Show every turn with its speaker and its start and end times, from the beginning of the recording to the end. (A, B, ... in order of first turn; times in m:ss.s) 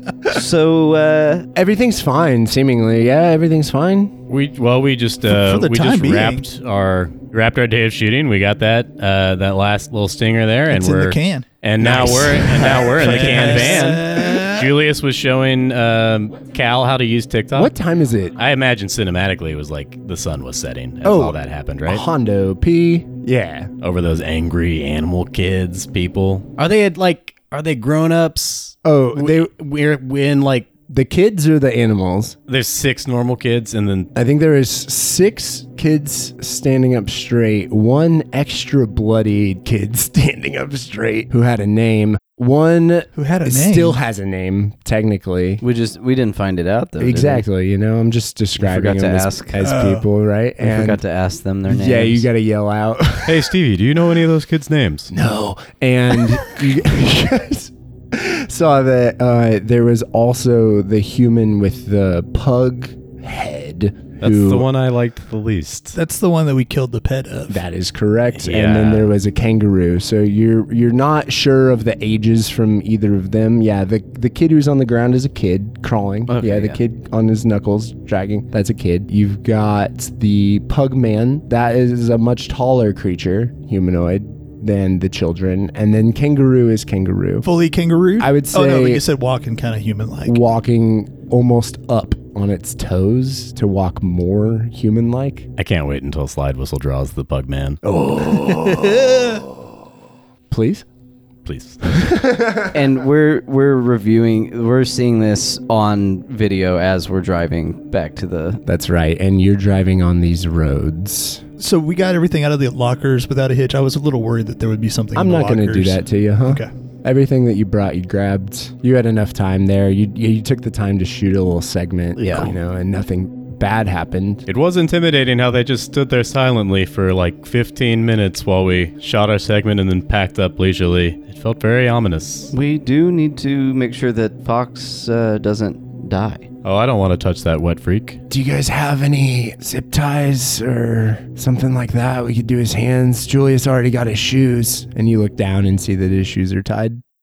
0:00.3-0:01.5 A
0:01.5-0:04.2 B
0:04.3-0:17.7 C
0:05.2-0:06.4 D
0:10.7-0:14.7 D
0:11.8-0:13.5 B
0:17.5-0:18.4 B
0:18.4-0:22.0 C
0:21.0-0:23.7 B
0:23.8-0:30.7 C
0:28.8-0:29.5 B
0:30.9-0:32.4 B
0:32.5-0:34.1 C
0:34.1-0:45.6 B
0:43.2-0:44.0 D
0:45.6-0:47.4 A
0:47.0-0:51.0 B
0:48.6-0:49.6 A
0:49.6-0:50.0 D
0:50.6-0:52.3 A
0:51.6-0:53.5 B
0:53.2-0:55.1 C
0:55.1-1:04.7 B
1:04.2-1:06.0 C
1:06.0-1:07.6 D
1:07.5-1:27.5 B
1:08.4-1:09.1 C
1:16.3-1:16.8 A
1:27.4-1:30.4 D
1:28.2-1:29.0 B
1:30.2-1:35.5 B
1:35.6-1:37.8 C
1:37.8-1:39.6 B
1:40.5-1:40.8 B
1:41.4-1:42.1 C
1:42.0-1:42.8 B
1:42.7-1:48.6 A
1:48.6-1:51.4 B
1:51.6-1:56.7 D
1:55.1-2:04.4 B
2:02.2-2:02.5 A
2:04.5-2:12.5 C
2:12.5-2:16.5 A
2:16.6-2:18.2 C
2:18.3-2:27.0 B